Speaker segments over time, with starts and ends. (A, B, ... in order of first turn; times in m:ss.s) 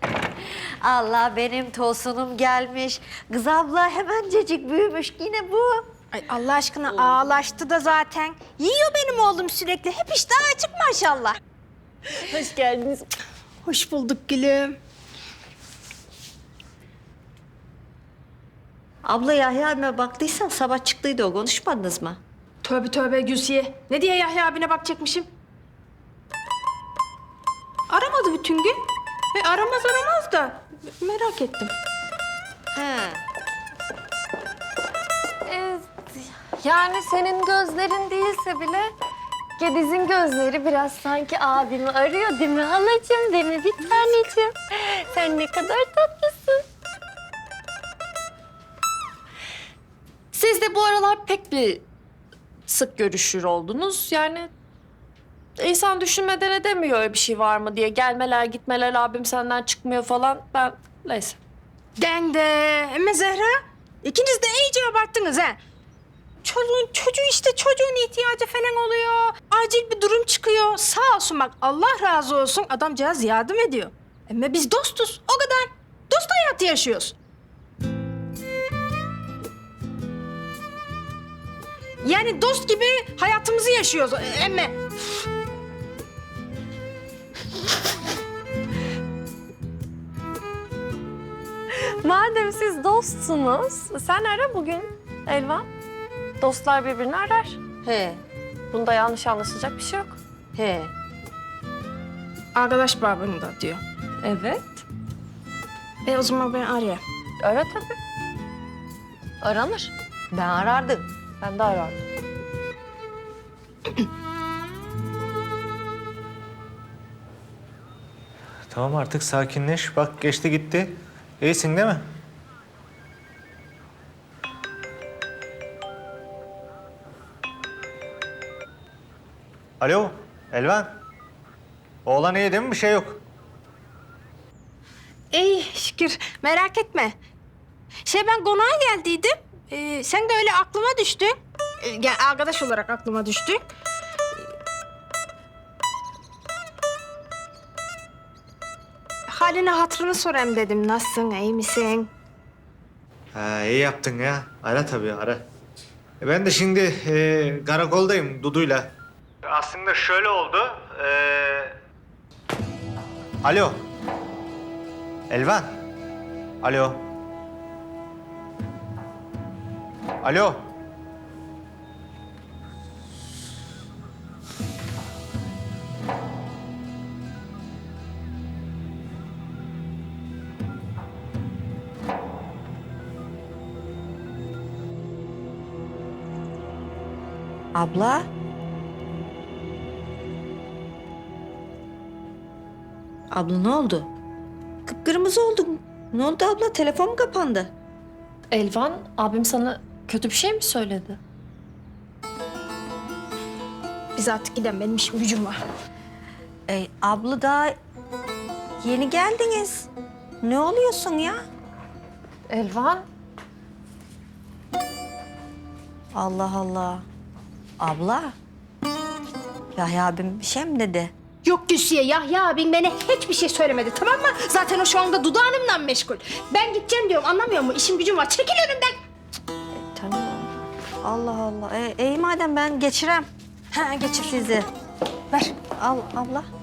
0:00.8-0:05.8 A
0:06.1-0:11.4 B
0:12.1-0:13.1 C
0:13.6-0:14.8 B
0:19.0-0:22.2 A
0:22.6-0:25.3 B
0:27.9-0:28.8 B
0:29.3-0:31.7 B
0:32.7-0:33.2 A
0:35.5-0:38.9 C
0:39.6-0:46.6 C
0:50.3-0:51.8 C
0:52.7-0:54.5 C
0:55.6-1:01.4 C
1:02.0-1:05.6 B
1:06.4-1:17.2 B
1:22.0-1:24.8 B
1:32.0-1:35.7 C
1:36.4-1:37.6 C
1:37.8-1:38.2 A
1:38.7-1:40.2 C
1:40.6-1:40.9 A
1:42.6-1:43.8 B
1:44.2-1:44.6 C
1:46.0-1:47.0 B
1:47.4-1:48.0 C
1:49.4-1:49.9 C
1:50.3-1:51.1 A
1:51.4-1:52.0 C
1:58.7-2:02.0 D
2:09.8-2:10.9 D
2:12.1-2:13.2 D
2:15.3-2:17.2 B
2:18.1-2:23.7 B
2:29.3-2:32.1 B
2:33.4-2:35.4 D
2:36.2-2:39.0 D
2:39.5-2:41.8 D
2:43.4-2:43.7 D
2:45.3-2:45.7 D
2:46.6-2:47.0 D
2:50.2-2:50.5 D
3:07.8-3:08.3 A
3:13.3-3:14.1 A
3:14.9-3:17.7 A
3:18.5-3:21.2 C
3:24.2-3:25.6 B
3:26.7-3:27.8 A
3:28.8-3:29.9 A
3:30.4-3:31.4 A
3:32.5-3:33.0 C
3:36.2-3:37.0 A
3:37.8-3:38.4 A
3:39.8-3:41.1 A
3:41.4-3:48.9 B
3:49.9-3:53.3 A
3:53.7-3:54.6 B
3:54.2-3:54.7 A
3:55.8-3:56.5 A